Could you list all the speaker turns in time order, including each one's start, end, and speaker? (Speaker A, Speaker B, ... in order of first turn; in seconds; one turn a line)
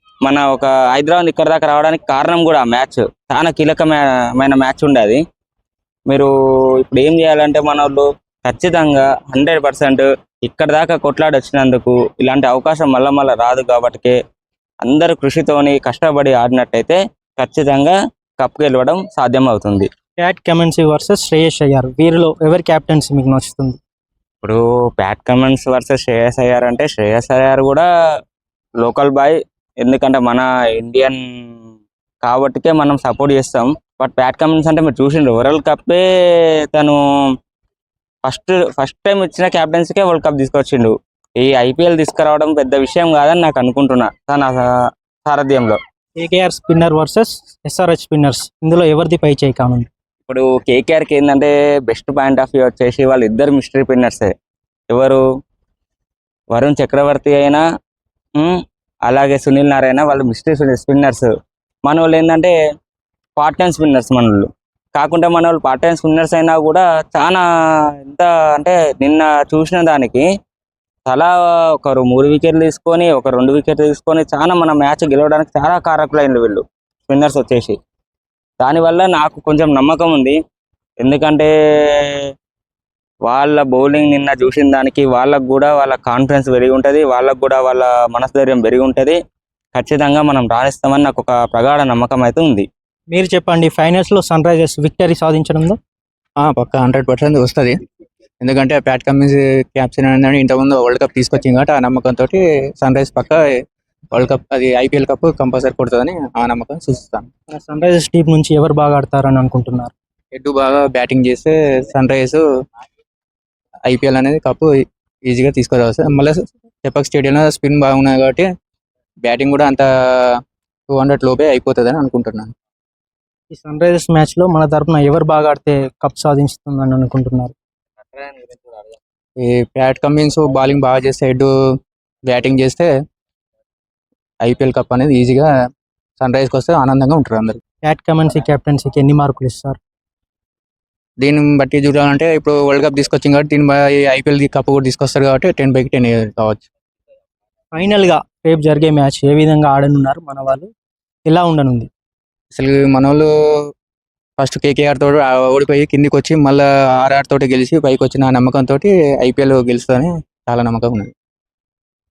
Speaker A: 0.2-5.2
Speaker A: 6.8-14.2
Speaker A: 14.8-19.9
Speaker B: 20.2-23.8
Speaker A: 24.4-27.9
Speaker A: 28.8-31.2
Speaker A: 32.2-36.0
Speaker A: 38.2-44.6
Speaker A: 45.2-45.8
Speaker B: 46.2-49.9
Speaker A: 50.3-54.3
Speaker A: 54.9-55.2
Speaker A: 56.5-57.6
Speaker A: 58.4-61.3
Speaker A: 61.9-62.5
Speaker A: 63.4-67.4
Speaker A: 68.1-70.2
Speaker A: 71.1-77.8
Speaker A: 78.6-80.4
Speaker A: 81.0-81.5
Speaker A: 83.3-89.2
Speaker A: 89.8-92.7
Speaker B: 93.1-95.8
Speaker C: 96.4-97.7
Speaker C: 98.4-103.4
Speaker C: 104.1-107.3
Speaker B: 107.5-109.9
Speaker C: 110.3-112.4
Speaker C: 113.9-114.7
Speaker C: 115.3-118.5
Speaker C: 119.2-120.3
Speaker C: 120.9-122.5
Speaker B: 123.5-127.5
Speaker A: 128.1-128.8
Speaker C: 129.4-131.5
Speaker C: 132.3-132.9
Speaker C: 134.4-135.5
Speaker C: 136.2-137.6
Speaker B: 137.8-139.8
Speaker C: 141.2-146.7
Speaker B: 147.8-150.7
Speaker B: 151.3-151.9
Speaker C: 152.6-153.3
Speaker C: 154.4-161.1